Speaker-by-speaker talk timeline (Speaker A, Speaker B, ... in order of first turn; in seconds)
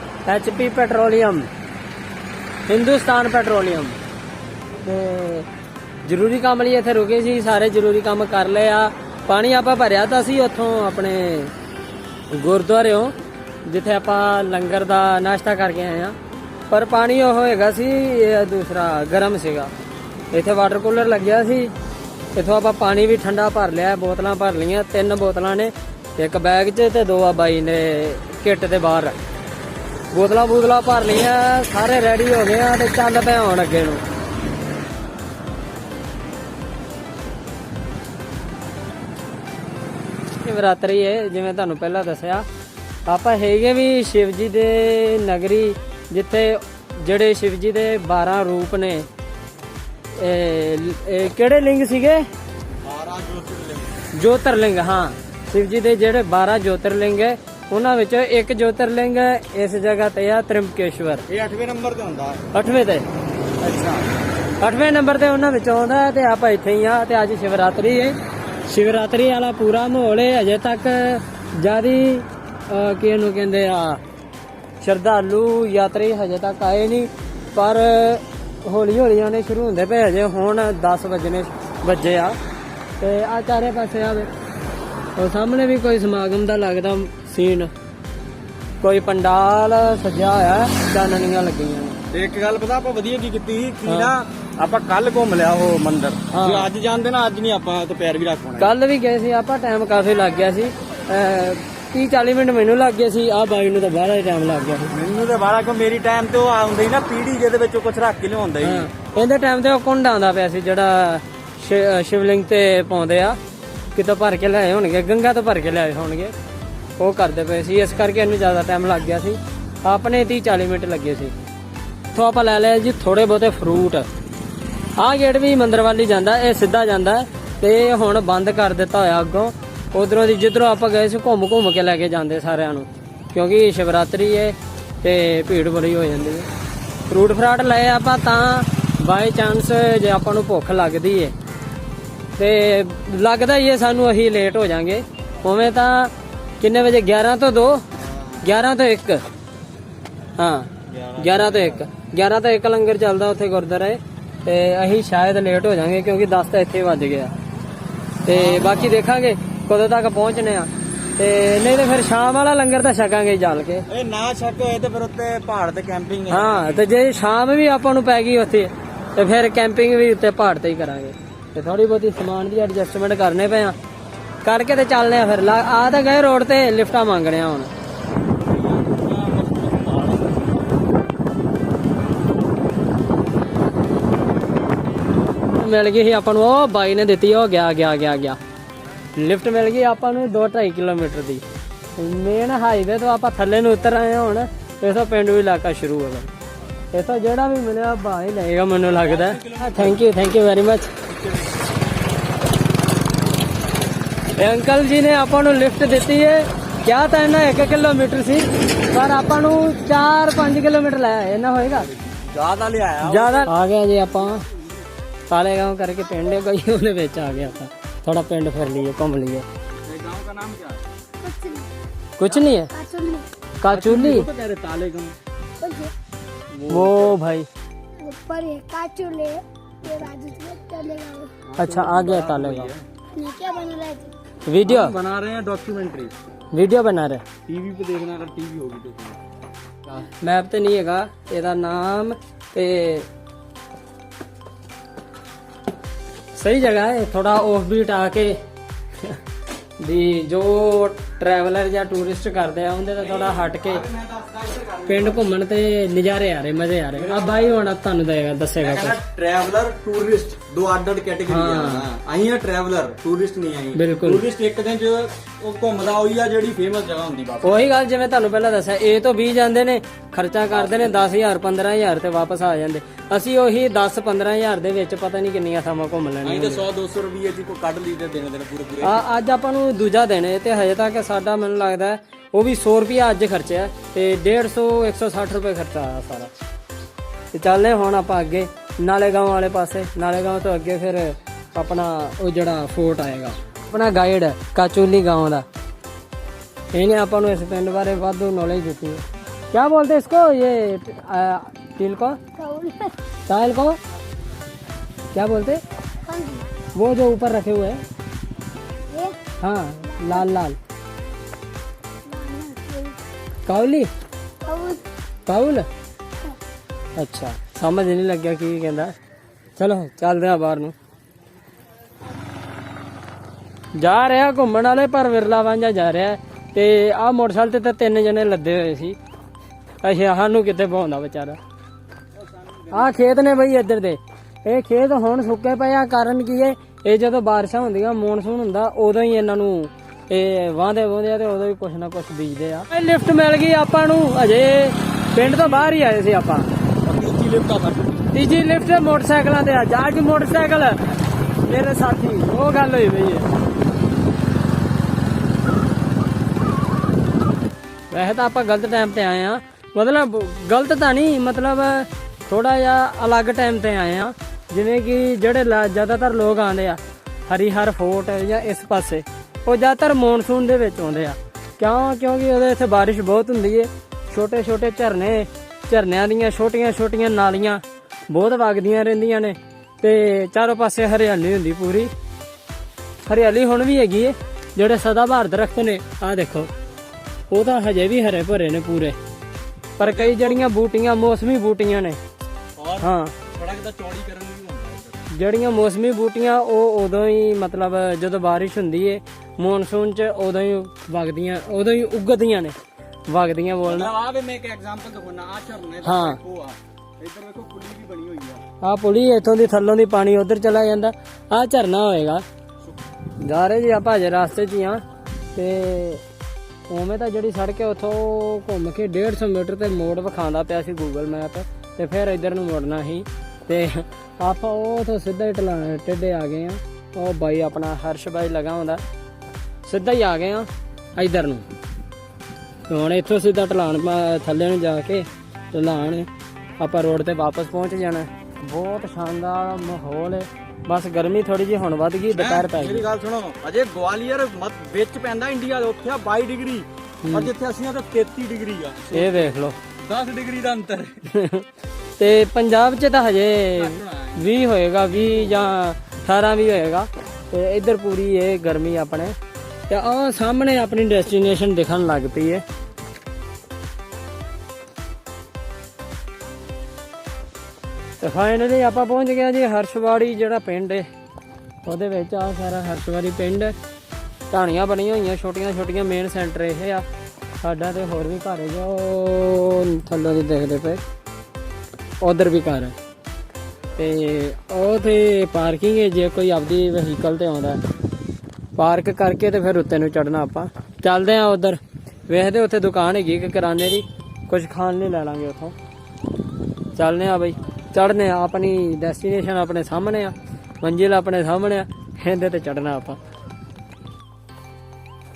Speaker A: 0.3-1.5, 2.7-4.0, 4.8-5.5, 6.0-11.5, 12.3-13.2, 13.7-16.2, 16.7-19.7, 20.3-21.7, 22.4-29.2, 30.1-34.0, 40.4-42.5, 43.1-49.1, 50.2-52.3, 54.1-61.2, 62.5-63.1, 64.6-74.0, 74.8-82.4, 83.0-84.3, 85.2-87.7, 88.8-92.0, 93.9-94.1, 96.3-96.7, 98.6-104.9, 108.6-113.4, 114.0-116.3, 117.0-121.3, 122.1-124.1, 125.0-136.5, 137.1-141.3, 142.4-147.8, 148.4-149.3, 150.4-157.3, 158.2-163.9, 166.3-173.8, 174.4-177.7, 185.4-188.4, 189.2-191.4, 191.9-196.3, 196.9-200.9, 204.4-211.9, 213.0-214.5, 215.3-219.5, 222.2-222.7, 223.6-224.3, 226.7-227.5, 231.6-232.7, 234.4-234.9, 236.5-237.2, 239.9-243.1, 246.3-248.4, 249.8-253.8, 254.9-259.0, 261.3-261.9, 263.8-264.2, 267.4-276.7, 278.8-286.3, 287.3-295.4, 296.7-302.2, 303.3-303.8, 305.1-305.6, 306.8-307.8, 309.4-310.6, 313.5-313.9, 315.3-315.7, 317.0-318.9, 319.6-320.7, 323.8-329.0, 329.8-331.4, 332.7-346.5, 348.1-350.8, 351.4-353.3, 357.9-381.9, 383.0-386.5, 387.3-389.0, 389.8-392.0, 392.8-393.2, 395.1-402.5, 403.1-403.9, 405.8-406.2, 408.6-412.2, 413.2-414.8, 415.3-416.0, 416.7-428.8, 429.7-431.4, 432.7-436.1, 436.6-442.9, 447.0-447.3, 448.9-449.6, 451.1-451.5, 452.0-459.1, 459.7-462.4, 468.0-470.9, 471.6-473.6, 474.3-476.9, 477.4-480.8, 482.0-482.8, 483.8-487.6, 488.6-495.6, 496.8-503.0
Speaker B: 52.8-53.9, 61.3-62.5, 63.6-64.1, 92.1-98.7, 104.9-108.9, 147.9-148.5, 150.9-151.9, 158.3-159.0, 163.9-166.8, 178.3-180.8, 198.9-200.0, 201.1-201.7, 211.9-213.5, 219.8-220.8, 223.7-225.2, 226.5-227.2, 231.5-232.8, 234.6-236.1, 237.5-239.2, 253.0-255.3, 256.9-257.6, 258.6-267.7, 270.5-270.9, 276.2-279.1, 332.2-333.0, 345.2-345.7, 346.8-348.0, 389.8-390.4, 392.6-395.0, 403.7-408.4, 442.1-451.1, 453.6-454.3, 454.9-455.5
Speaker C: 221.2-221.7, 222.6-223.3, 225.6-225.9, 228.0-231.4, 233.1-234.2, 302.4-303.0, 306.1-306.5, 308.9-309.2, 309.9-310.2, 312.1-313.0, 314.4-314.9